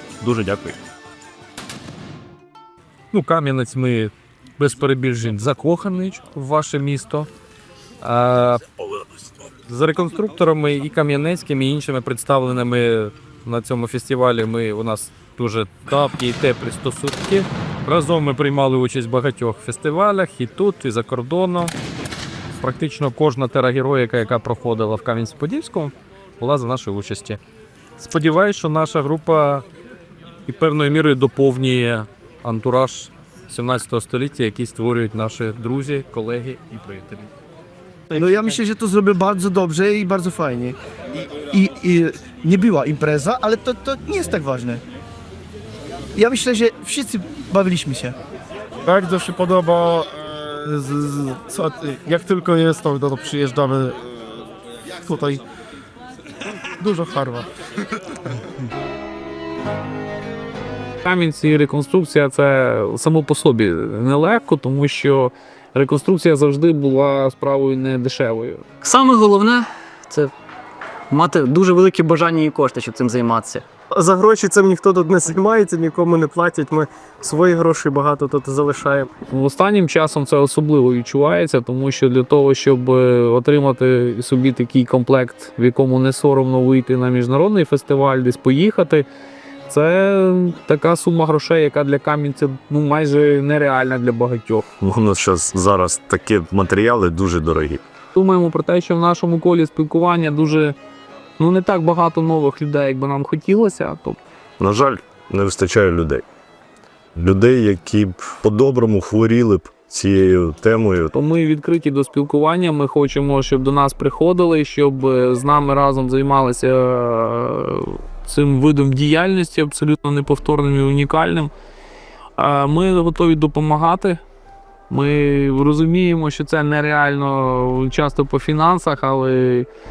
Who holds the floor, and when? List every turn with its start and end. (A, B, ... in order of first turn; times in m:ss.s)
0:03.1-0:07.3 A
0:08.0-0:08.6 A
0:09.7-0:21.7 A
0:22.6-0:27.4 A
0:28.0-0:29.6 A
0:30.5-0:37.2 A
0:38.1-0:44.8 B
0:46.2-0:48.2 B
0:48.8-0:54.0 C
0:55.0-0:55.4 C
0:56.8-0:57.4 C
1:01.0-1:08.6 D
1:08.8-1:10.3 E
1:11.1-1:13.6 E
1:13.9-1:19.1 F
1:19.3-1:29.0 D
1:29.7-1:34.7 D
1:34.8-1:37.8 G
1:38.1-1:40.8 D
1:41.4-1:44.2 D
1:44.6-1:46.2 G
1:47.1-1:51.1 G
1:51.1-2:01.5 D
2:02.4-2:04.2 D
2:04.9-2:09.7 D